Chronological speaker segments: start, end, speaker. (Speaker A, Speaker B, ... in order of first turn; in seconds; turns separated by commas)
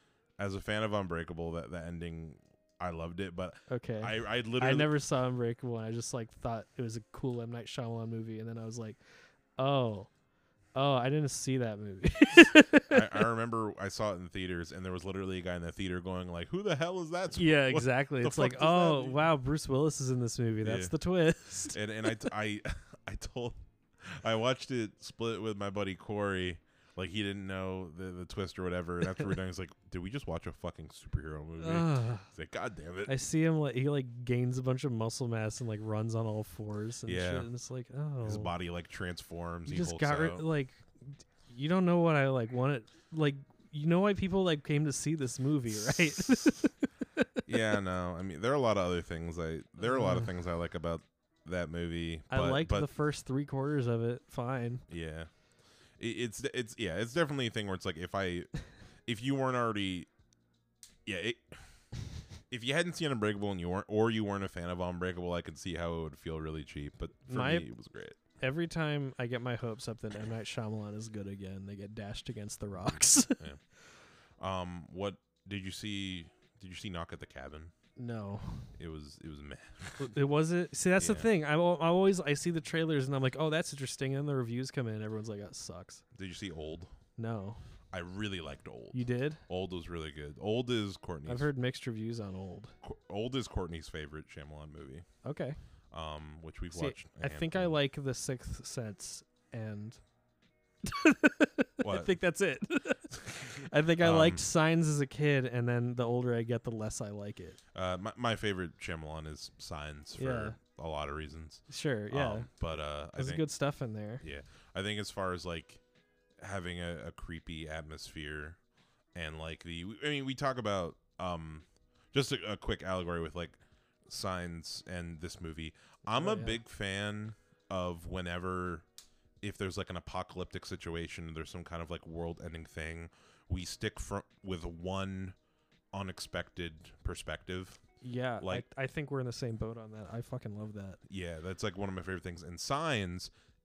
Speaker A: 0.4-4.9, Speaker B: 3.7-9.0, Speaker B: 9.6-10.1, Speaker B: 10.8-13.2, Speaker A: 12.9-19.3, Speaker B: 17.4-21.8, Speaker A: 20.6-20.9, Speaker A: 21.7-33.1, Speaker B: 31.6-32.3, Speaker B: 33.1-38.5, Speaker A: 37.1-37.5, Speaker A: 38.2-40.5, Speaker B: 39.7-47.4, Speaker A: 45.8-46.5, Speaker A: 47.5-52.9, Speaker B: 49.8-50.3, Speaker B: 52.3-54.8, Speaker A: 54.9-55.3, Speaker A: 56.0-58.5, Speaker A: 59.0-60.1, Speaker A: 61.1-61.8, Speaker A: 62.5-68.2, Speaker B: 67.3-67.7, Speaker B: 68.4-73.4, Speaker A: 72.9-73.6, Speaker A: 74.4-77.7, Speaker B: 78.0-78.7, Speaker A: 78.8-80.2, Speaker B: 80.0-86.0, Speaker A: 81.0-81.3, Speaker A: 86.1-86.9, Speaker B: 87.2-87.6, Speaker A: 87.9-91.5, Speaker B: 88.9-89.4, Speaker B: 91.3-92.8, Speaker A: 92.8-95.1, Speaker B: 95.2-95.6, Speaker A: 95.9-97.7, Speaker B: 96.7-100.0, Speaker B: 100.8-107.6, Speaker A: 101.8-102.2, Speaker A: 103.6-104.5, Speaker A: 107.7-113.4, Speaker B: 110.2-110.6, Speaker B: 111.7-112.5, Speaker B: 113.2-114.2, Speaker A: 114.2-115.8, Speaker A: 116.4-118.6, Speaker A: 119.1-128.8, Speaker B: 126.1-126.6, Speaker A: 129.4-135.4, Speaker A: 135.9-137.8, Speaker B: 138.0-141.0, Speaker A: 138.4-138.7, Speaker A: 141.1-143.3